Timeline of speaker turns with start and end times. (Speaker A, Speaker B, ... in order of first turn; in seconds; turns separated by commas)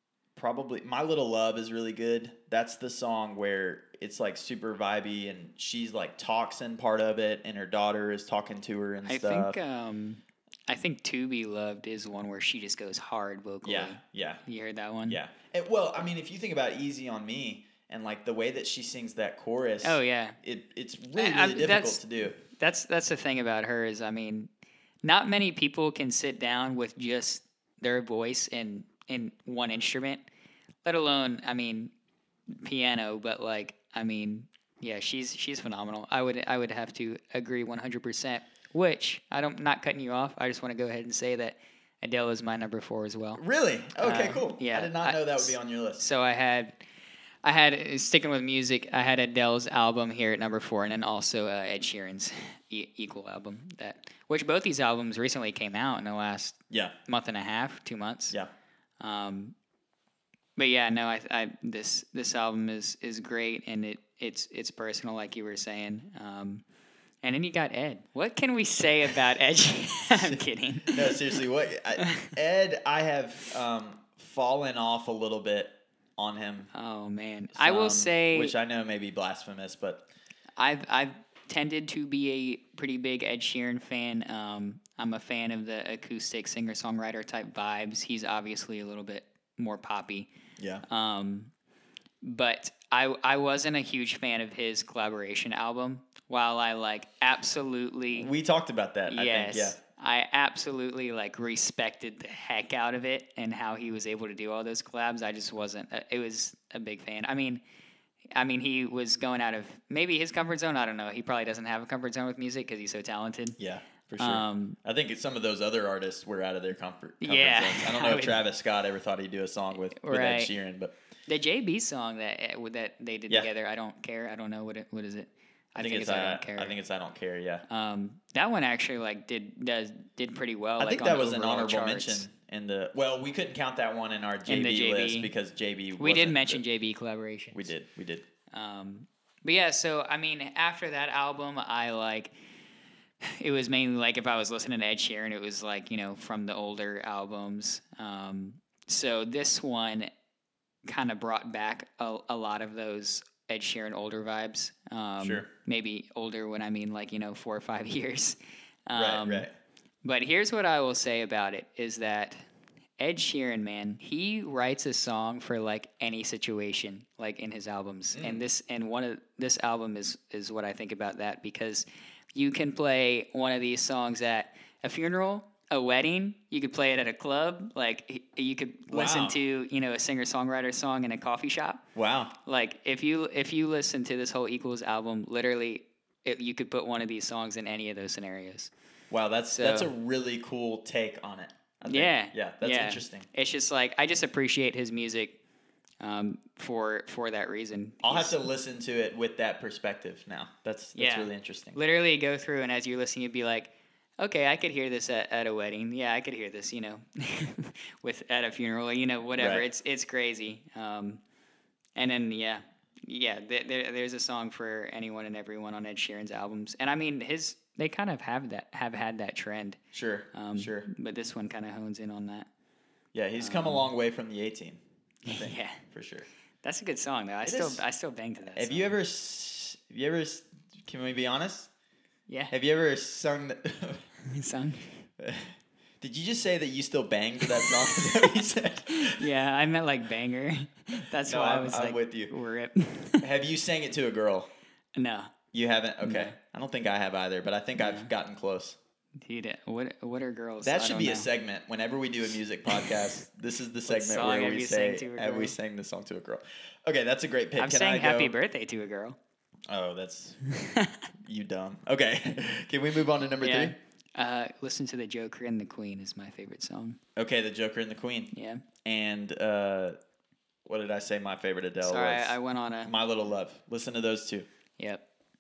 Speaker A: 0.3-9.6, Speaker B: 9.1-15.2, Speaker A: 13.6-14.4, Speaker A: 15.1-22.4, Speaker B: 19.8-20.4, Speaker B: 21.1-24.5, Speaker B: 25.0-30.2, Speaker B: 30.8-31.9, Speaker B: 32.5-43.4, Speaker A: 43.4-46.0, Speaker B: 44.0-46.7, Speaker B: 47.4-58.4, Speaker B: 59.0-59.5, Speaker B: 60.6-66.6, Speaker B: 67.2-71.3, Speaker A: 70.0-76.7, Speaker B: 72.0-72.3, Speaker B: 76.7-78.5, Speaker A: 77.5-80.0, Speaker B: 80.6-90.3, Speaker A: 90.6-90.8, Speaker B: 90.8-91.5, Speaker B: 92.2-98.3, Speaker A: 98.1-99.8, Speaker B: 99.1-107.6, Speaker B: 108.3-113.6, Speaker A: 113.6-120.9, Speaker B: 114.2-114.8, Speaker B: 117.2-118.4, Speaker B: 119.9-120.5, Speaker B: 121.3-126.8, Speaker A: 125.8-127.6, Speaker B: 127.7-132.2, Speaker A: 130.8-136.6, Speaker B: 134.5-135.3, Speaker B: 136.0-137.7, Speaker A: 137.5-138.2, Speaker B: 138.5-142.3, Speaker B: 143.2-150.1, Speaker B: 150.8-158.4, Speaker A: 155.2-155.5, Speaker B: 158.9-159.5, Speaker A: 158.9-159.5, Speaker B: 160.0-162.4, Speaker B: 163.0-181.8, Speaker A: 168.1-168.4, Speaker A: 178.9-179.4, Speaker A: 181.9-182.3, Speaker B: 182.4-188.7, Speaker A: 189.1-193.2, Speaker B: 189.5-189.9, Speaker B: 191.9-195.4, Speaker B: 196.0-198.4, Speaker A: 198.0-201.8, Speaker B: 200.9-211.2, Speaker A: 209.4-209.6, Speaker B: 211.9-219.8, Speaker A: 219.9-220.9, Speaker B: 220.3-222.5, Speaker A: 223.1-226.3, Speaker B: 223.4-223.9, Speaker B: 225.2-225.8, Speaker B: 226.6-228.9, Speaker A: 227.4-227.8, Speaker A: 228.5-231.7, Speaker B: 232.3-232.5, Speaker A: 232.5-234.0, Speaker B: 234.2-234.9, Speaker A: 235.2-239.2, Speaker B: 237.5-238.1, Speaker B: 238.9-243.2, Speaker A: 241.2-242.3, Speaker A: 243.2-244.5, Speaker B: 244.9-245.3, Speaker A: 245.5-248.8, Speaker B: 246.0-246.3, Speaker B: 247.8-248.1, Speaker B: 249.2-251.3, Speaker A: 250.6-258.3, Speaker B: 253.8-255.5, Speaker B: 257.6-259.2, Speaker A: 259.7-260.4, Speaker B: 260.4-261.0, Speaker A: 261.2-263.8, Speaker B: 263.4-267.0, Speaker A: 267.1-268.3, Speaker B: 268.3-268.6, Speaker A: 268.8-269.9, Speaker A: 270.6-274.5, Speaker B: 271.8-272.9, Speaker B: 274.8-275.0